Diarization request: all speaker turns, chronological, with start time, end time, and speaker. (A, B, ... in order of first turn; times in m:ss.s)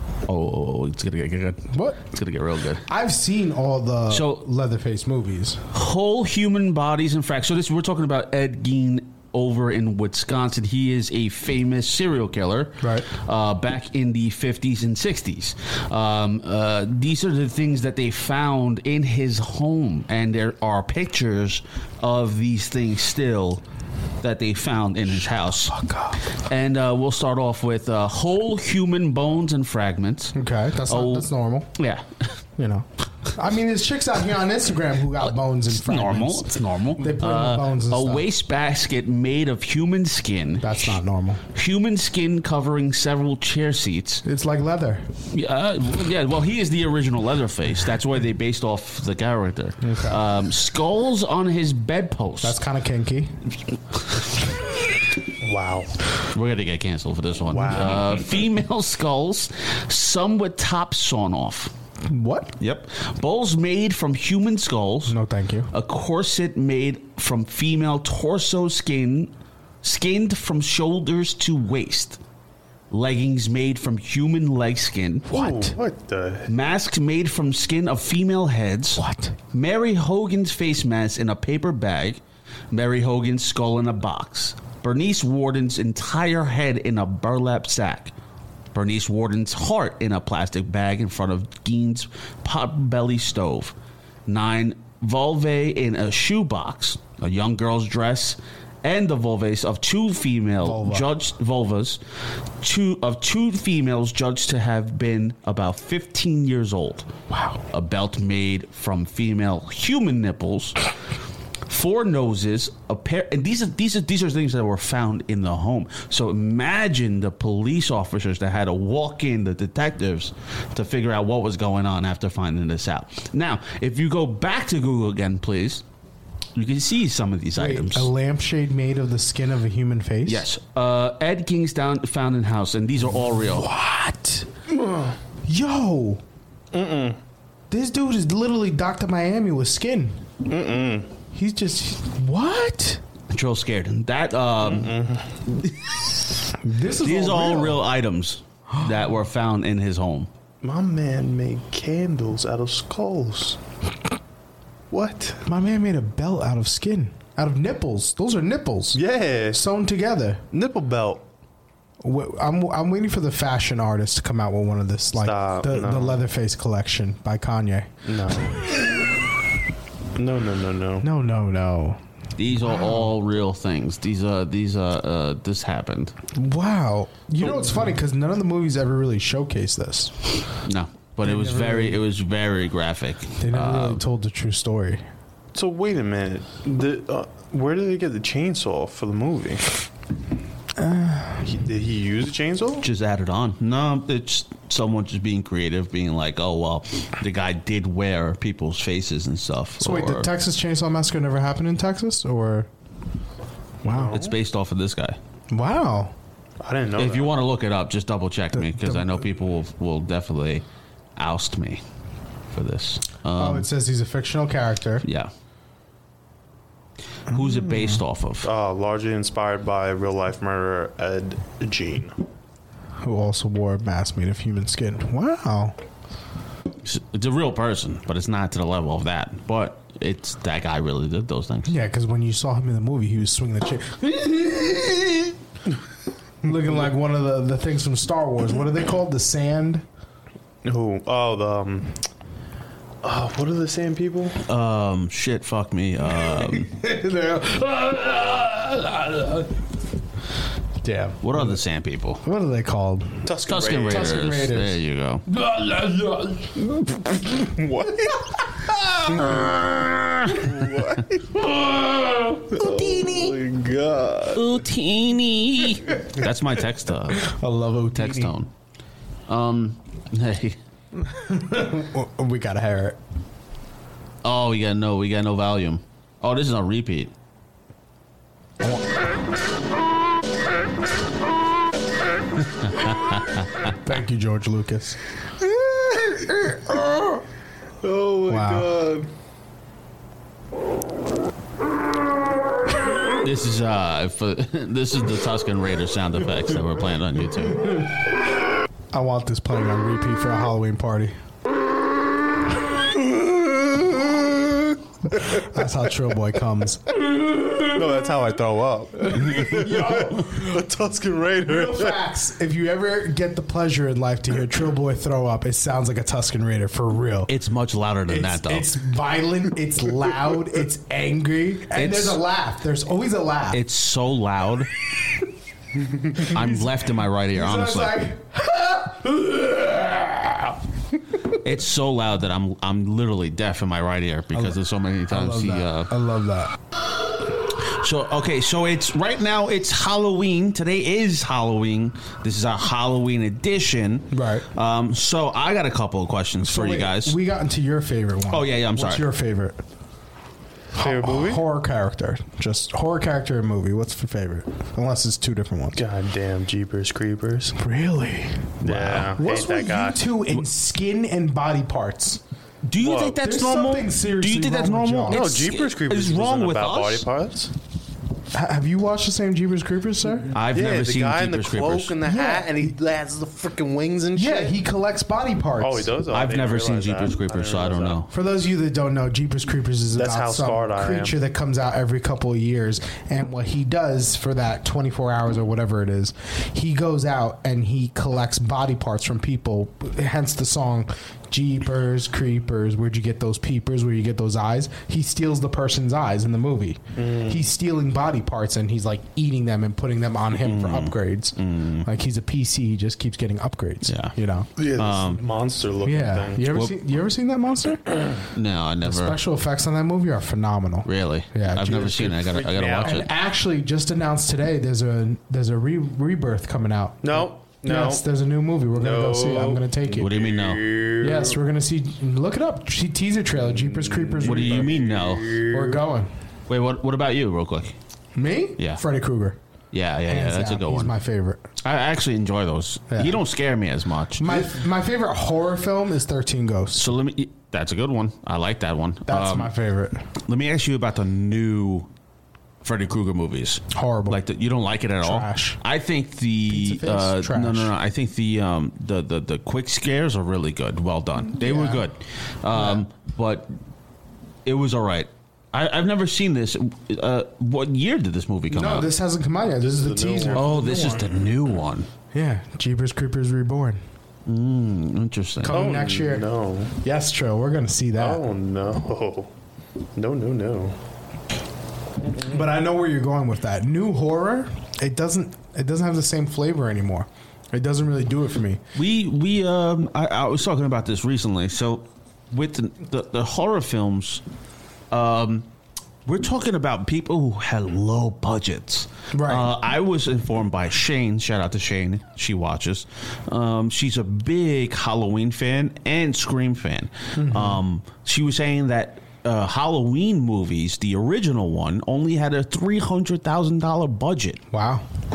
0:00.3-0:02.8 A
0:01.7-0:02.0 B
0:02.9-0:05.6 B
0:04.1-0:04.4 A
0:05.7-0:23.6 A
0:12.8-0:13.1 B
0:24.2-0:25.7 A
0:25.3-0:26.2 B
0:26.5-0:32.4 A
0:30.3-0:31.7 B
0:32.6-0:38.3 B
0:35.7-0:41.0 A
0:40.6-0:41.4 B
0:41.5-0:44.2 A
0:44.2-0:45.1 B
0:45.3-0:52.6 A
0:49.8-0:50.2 B
0:52.4-0:53.4 B
0:55.4-0:55.9 C
0:56.3-1:01.7 A
0:57.5-0:58.2 C
1:02.1-1:02.6 B
1:02.6-1:05.2 A
1:05.1-1:05.7 B
1:05.7-1:12.2 A
1:12.9-1:15.4 A
1:15.3-1:15.8 B
1:15.3-1:16.5 C
1:16.5-1:22.2 A
1:19.0-1:19.4 B
1:22.7-1:28.1 A
1:28.7-1:33.8 A
1:34.3-1:42.0 A
1:40.6-1:41.1 B
1:42.6-1:47.1 A
1:47.3-1:47.6 B
1:47.7-1:50.8 A
1:51.7-2:05.8 A
2:06.6-2:08.1 A
2:07.6-2:10.5 B
2:10.3-2:13.7 A
2:13.5-2:14.5 B
2:14.8-2:15.1 C
2:15.4-2:16.2 B
2:16.7-2:17.2 C
2:17.7-2:20.3 B
2:20.4-2:21.1 C
2:21.3-2:23.0 B
2:23.3-2:24.9 A
2:24.6-2:25.4 C
2:25.6-2:26.1 A
2:26.6-2:27.8 B
2:27.0-2:30.3 A
2:28.7-2:29.0 B
2:30.6-2:33.6 C
2:34.9-2:35.4 C
2:35.4-2:39.0 B
2:38.9-2:39.6 C
2:39.5-2:40.4 B
2:40.5-2:41.2 C
2:42.0-2:47.9 B
2:45.2-2:46.2 C
2:48.1-2:48.7 C
2:50.2-2:51.1 C
2:51.0-2:52.0 B
2:52.4-2:56.1 A
2:52.6-2:53.1 B
2:56.4-3:00.2 B
2:57.4-2:57.9 C
3:00.6-3:04.0 A
3:01.2-3:02.0 B
3:03.4-3:05.0 B
3:05.5-3:09.7 C
3:10.8-3:11.5 B
3:11.4-3:12.8 C
3:12.8-3:20.3 A
3:19.8-3:22.7 B
3:23.8-3:24.2 B
3:23.8-3:24.4 C
3:24.1-3:25.2 A
3:25.5-3:26.1 B
3:26.6-3:27.4 C
3:27.0-3:30.6 A
3:28.5-3:29.2 B
3:31.2-3:31.8 A
3:32.5-3:33.7 A
3:33.4-3:35.1 B
3:35.0-3:35.3 A
3:37.3-3:38.5 A
3:38.4-3:42.2 C
3:43.0-3:45.8 B
3:46.8-3:51.7 A
3:51.7-3:55.4 B
3:56.4-3:59.8 B
4:00.6-4:02.0 C
4:03.0-4:04.4 C
4:04.4-4:06.7 A
4:06.4-4:09.5 B
4:10.8-4:11.6 B
4:11.2-4:12.2 A
4:12.2-4:14.8 B
4:13.3-4:14.2 C
4:13.5-4:15.2 A
4:15.4-4:16.5 B
4:17.3-4:18.4 C
4:19.2-4:20.7 A
4:20.3-4:21.3 C
4:22.5-4:24.4 C
4:22.6-4:23.2 B
4:24.3-4:27.3 A
4:27.1-4:28.4 B
4:27.9-4:28.5 A
4:29.3-4:30.6 A
4:31.1-4:33.0 B
4:34.2-4:37.1 A
4:38.6-4:38.9 B
4:42.6-4:43.7 A
4:43.8-4:45.0 B
4:45.4-4:46.7 C
4:47.8-4:49.1 C
4:48.3-4:48.8 B
4:53.2-4:57.8 A
4:58.9-5:01.2 B
5:05.1-5:06.9 B
5:07.6-5:12.0 C
5:09.1-5:10.7 B
5:11.4-5:17.3 B
5:17.3-5:18.7 A
5:18.1-5:23.6 B
5:21.7-5:22.2 A
5:23.5-5:24.7 A
5:26.2-5:28.0 A
5:26.2-5:26.6 B
5:27.3-5:30.5 B
5:31.3-5:35.9 A
5:34.3-5:36.6 B
5:37.7-5:47.2 A
5:44.1-5:44.5 B
5:46.4-5:49.6 B
5:48.3-5:49.1 A
5:50.8-5:55.8 B
5:50.8-5:51.4 C
5:55.8-5:57.6 C
5:57.6-5:58.5 B
5:58.6-5:59.1 A
5:58.6-6:00.0 C
5:59.2-6:02.2 B
6:02.7-6:07.1 A
6:02.8-6:03.2 C
6:03.2-6:05.4 B
6:05.1-6:07.5 C
6:08.3-6:10.3 B
6:10.3-6:12.0 A
6:10.5-6:14.6 C
6:12.0-6:12.7 B
6:14.2-6:15.9 B
6:15.6-6:18.0 C
6:16.1-6:18.1 A
6:18.1-6:44.5 B
6:20.0-6:21.2 C
6:37.0-6:37.5 C
6:40.4-6:41.9 A
6:43.9-6:45.2 A
6:44.6-6:46.5 C
6:45.8-6:47.8 B
6:48.3-6:49.2 A
6:48.8-6:52.3 B
6:50.8-6:53.1 A
6:52.2-6:53.0 C
6:52.8-7:00.1 B
6:57.0-6:58.0 C
6:58.8-7:01.4 C
7:00.0-7:00.8 A
7:01.0-7:04.8 B
7:03.7-7:05.8 C
7:04.2-7:05.4 A
7:05.5-7:06.1 B
7:06.5-7:07.8 A
7:08.2-7:09.4 B
7:09.7-7:10.9 A
7:10.0-7:11.4 B
7:11.6-7:14.5 A
7:12.9-7:13.2 B
7:14.2-7:17.0 B
7:16.8-7:19.5 A
7:19.1-7:20.1 B
7:20.3-7:21.9 A
7:22.6-7:33.5 A
7:23.7-7:24.2 B
7:25.0-7:25.6 B
7:26.5-7:27.7 B
7:31.3-7:31.9 B
7:32.5-7:32.8 B
7:34.5-7:38.9 A
7:38.5-7:41.1 B
7:39.7-7:40.9 C
7:40.3-7:41.9 A
7:42.1-7:43.8 B
7:44.3-7:45.6 A
7:45.4-7:46.3 B
7:45.5-7:46.7 C
7:46.8-7:48.2 B
7:48.0-7:49.3 C
7:50.0-7:50.8 C
7:52.1-7:52.4 C
7:52.2-7:58.6 B
7:58.8-8:04.2 A
8:04.9-8:05.5 A
8:06.1-8:24.4 A
8:09.1-8:09.5 B
8:17.2-8:17.6 B
8:24.5-8:24.9 B